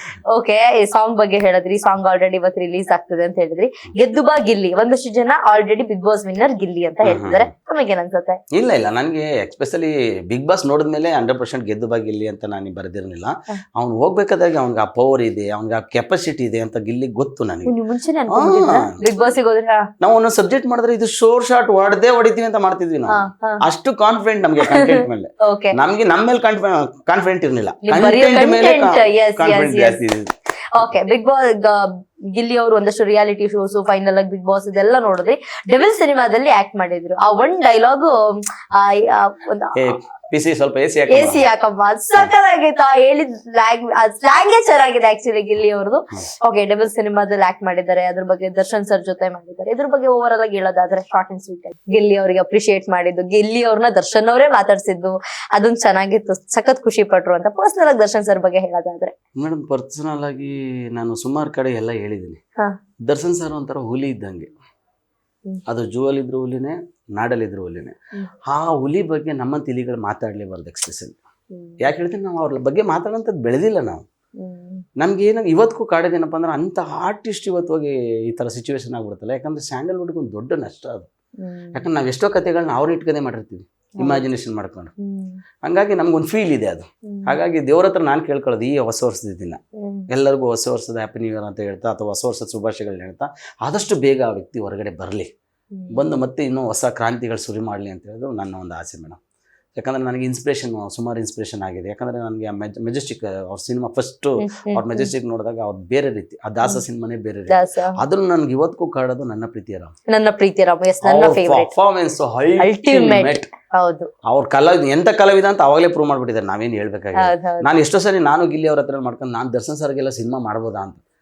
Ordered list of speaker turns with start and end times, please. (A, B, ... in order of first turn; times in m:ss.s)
0:00.3-0:08.4 A
0:07.0-0:07.5 B
0:08.5-0:17.7 B
0:17.6-0:19.8 A
0:18.3-0:19.0 B
0:20.0-0:30.3 B
0:23.1-0:23.6 A
0:24.6-0:25.8 A
0:27.8-0:30.0 A
0:30.8-0:39.8 A
0:39.8-0:41.4 B
0:41.1-0:59.1 A
0:59.4-1:02.4 B
1:03.1-1:04.5 B
1:05.7-1:08.0 B
1:08.5-1:11.2 B
1:11.5-1:11.9 A
1:11.8-1:14.0 B
1:14.4-1:14.8 A
1:15.0-1:21.1 B
1:21.4-1:21.8 A
1:21.8-1:24.9 B
1:24.0-1:24.2 A
1:25.0-1:25.4 A
1:25.6-1:35.3 B
1:27.1-1:27.4 A
1:29.8-1:30.1 A
1:35.9-1:39.2 B
1:39.8-1:49.9 B
1:44.4-1:45.1 A
1:47.5-1:48.0 A
1:50.1-1:51.7 A
1:51.0-1:53.5 B
1:52.6-1:54.1 A
1:54.3-2:01.0 B
1:57.2-1:57.7 A